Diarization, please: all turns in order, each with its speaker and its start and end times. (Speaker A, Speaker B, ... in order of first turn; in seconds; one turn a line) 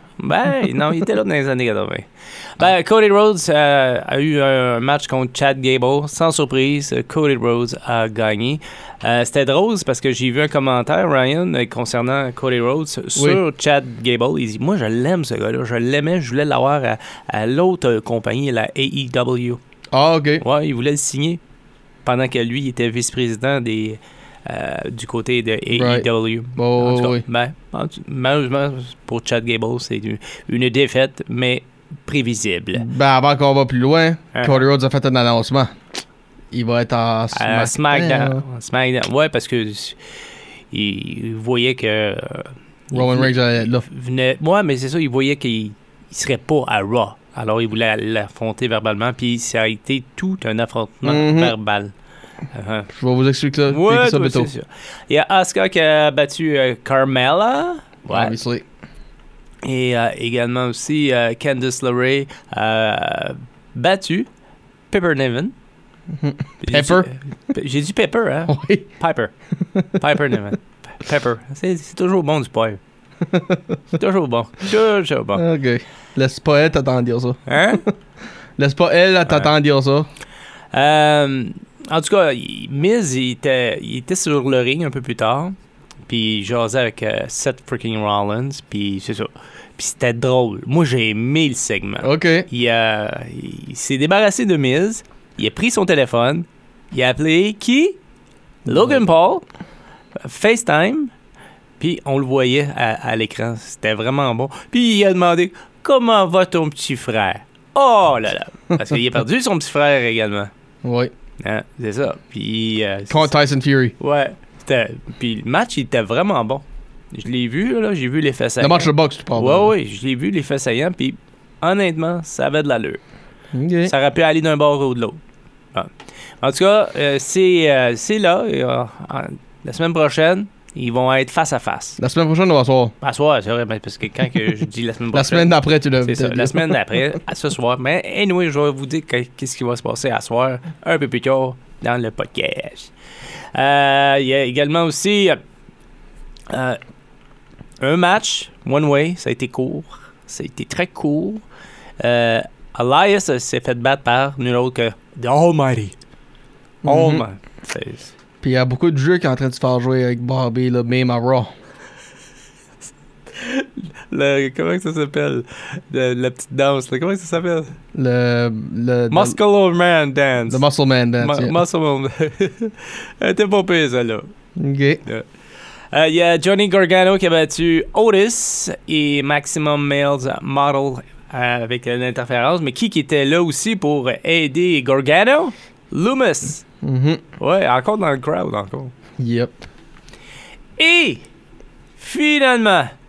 Speaker A: 0.2-19.6
Speaker B: 13.2-13.4
Speaker B: 19.9-20.4
Speaker A: 20.4-21.4
Speaker A: 22.1-32.9
Speaker B: 25.7-27.2
Speaker B: 32.7-35.7
Speaker A: 34.3-34.6
Speaker B: 36.5-38.4
Speaker A: 37.3-40.0
Speaker A: 40.7-51.9
Speaker B: 42.9-43.9
Speaker B: 51.0-51.5
Speaker A: 52.5-52.9
Speaker B: 52.9-54.5
Speaker A: 53.7-58.4
Speaker B: 58.1-58.6
Speaker A: 59.6-64.3
Speaker A: 64.9-65.5
Speaker B: 66.2-67.1
Speaker A: 66.6-69.3
Speaker B: 68.5-68.9
Speaker B: 69.7-70.0
Speaker A: 70.0-72.8
Speaker B: 73.3-73.7
Speaker A: 73.9-75.5
Speaker B: 75.3-77.9
Speaker A: 77.5-77.8
Speaker B: 78.6-80.1
Speaker A: 80.7-85.5
Speaker A: 86.1-98.0
Speaker B: 92.0-92.5
Speaker B: 98.7-99.0
Speaker A: 98.7-99.5
Speaker A: 100.2-101.1
Speaker A: 101.8-110.5
Speaker B: 110.8-111.1
Speaker A: 111.4-113.3
Speaker B: 113.1-114.0
Speaker A: 114.0-123.0
Speaker B: 118.6-119.7
Speaker B: 123.5-123.9
Speaker A: 123.8-125.2
Speaker A: 125.7-132.0
Speaker B: 132.0-132.9
Speaker A: 133.0-142.9
Speaker B: 135.1-136.8
Speaker A: 143.5-145.4
Speaker A: 146.5-146.8
Speaker A: 147.8-151.4
Speaker A: 152.0-155.9
Speaker B: 156.8-157.3
Speaker A: 156.8-158.1
Speaker B: 158.4-161.5
Speaker A: 163.3-167.7
Speaker B: 167.9-169.4
Speaker A: 169.1-170.7
Speaker B: 170.5-171.6
Speaker A: 171.2-174.3
Speaker B: 174.6-175.0
Speaker A: 175.9-186.6
Speaker B: 186.8-187.2
Speaker A: 187.4-188.9
Speaker B: 189.2-189.6
Speaker A: 190.8-191.2
Speaker A: 192.0-192.9